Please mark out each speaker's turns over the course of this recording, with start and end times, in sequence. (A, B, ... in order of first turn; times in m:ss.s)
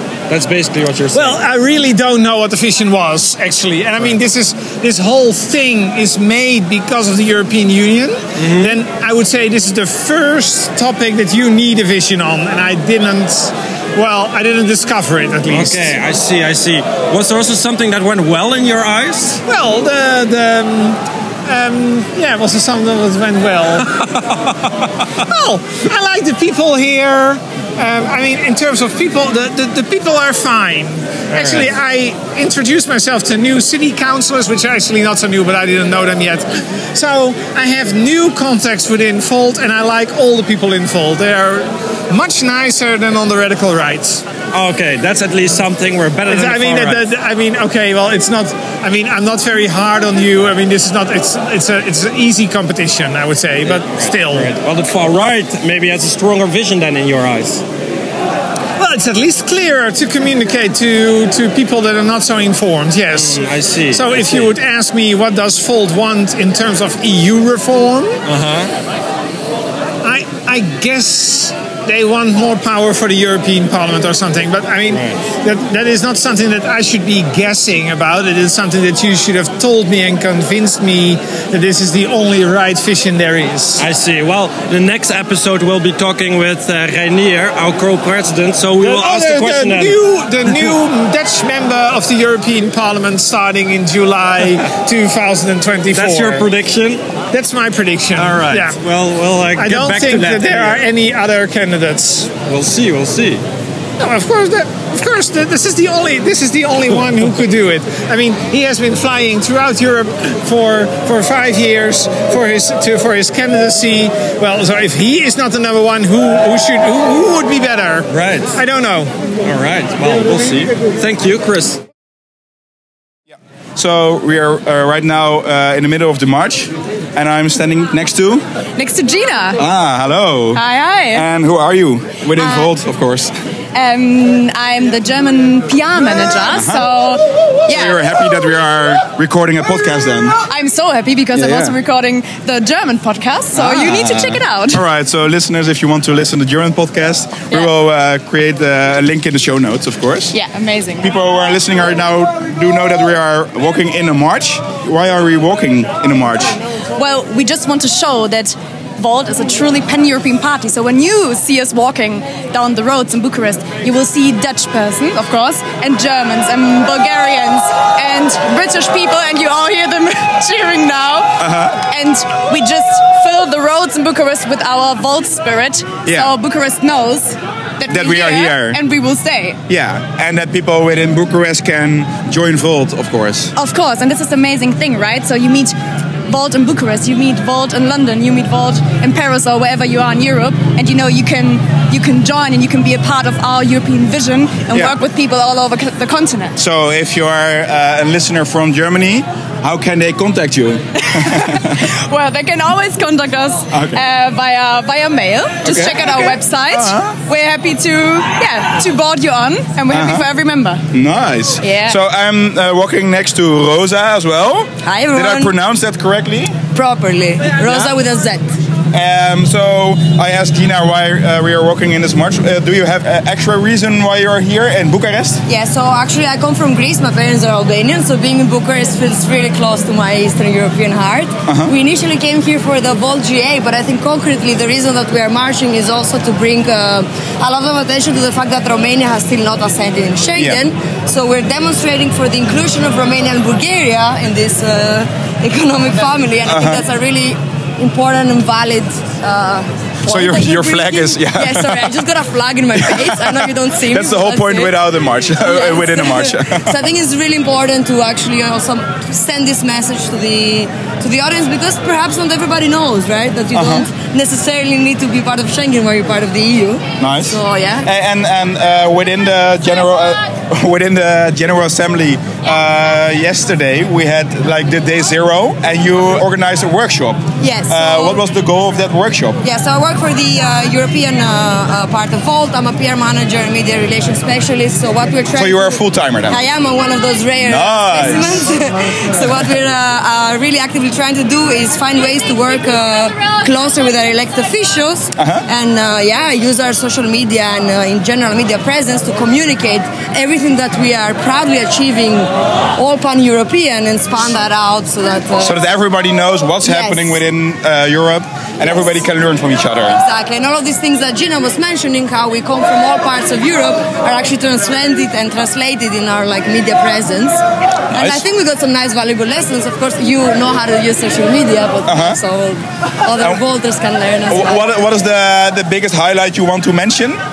0:00.3-0:01.4 A
0:01.1-0:15.9 B
0:08.4-0:08.8 A
0:15.5-0:19.4 A
0:19.4-0:23.9 B
0:25.2-0:44.2 B
0:31.3-0:31.6 A
0:44.5-0:47.1 A
0:46.3-0:54.5 B
0:53.6-0:57.6 A
0:58.8-1:08.2 B
1:03.1-1:04.5 A
1:08.2-1:08.7 A
1:10.0-1:23.8 B
1:14.9-1:15.2 A
1:23.8-1:30.7 A
1:28.8-1:36.4 B
1:35.9-1:37.0 A
1:37.3-1:38.8 B
1:38.2-1:40.8 A
1:39.5-1:42.3 B
1:42.5-1:43.4 A
1:44.0-1:59.1 B
1:58.1-1:58.6 A
1:59.4-2:01.8 A
2:03.8-2:08.4 C
2:08.8-2:09.6 D
2:09.6-2:13.3 C
2:10.5-2:11.2 D
2:12.4-2:12.7 D
2:13.7-2:18.0 D
2:16.5-2:16.9 C
2:17.7-2:20.4 C
2:20.4-2:24.8 D
2:21.3-2:21.8 C
2:23.5-2:30.4 C
2:30.3-2:31.1 D
2:31.0-2:36.6 C
2:36.9-2:59.6 D
2:51.4-2:51.8 C
2:56.0-2:56.3 C
2:57.9-2:58.8 C
2:59.7-3:03.5 C
3:03.5-3:05.8 D
3:06.3-3:16.5 D
3:14.7-3:15.0 C
3:16.6-3:21.8 C
3:21.1-3:30.8 D
3:23.7-3:24.0 C
3:25.6-3:27.2 C
3:29.9-3:30.3 C
3:30.9-3:36.6 C
3:31.6-3:32.0 D
3:34.8-3:35.5 E
3:36.7-3:38.5 E
3:37.6-3:37.9 C
3:38.9-3:45.4 C
3:45.5-4:14.8 E
3:51.4-3:51.7 C
4:00.3-4:00.6 C
4:06.4-4:06.8 C
4:10.0-4:12.0 C
4:12.8-4:16.8 C
4:15.3-4:27.8 E
4:23.5-4:23.9 C
4:27.0-4:39.4 C
4:37.4-4:38.2 E
4:39.4-5:05.6 E
4:45.3-4:46.4 C
4:47.4-4:48.5 C
4:55.2-4:55.4 C
5:05.4-5:10.0 C
5:06.6-5:07.2 E
5:08.6-5:08.9 E
5:09.9-5:17.4 E
5:17.9-5:24.7 E
5:17.9-5:18.2 C
5:21.8-5:22.2 C
5:24.3-5:27.2 C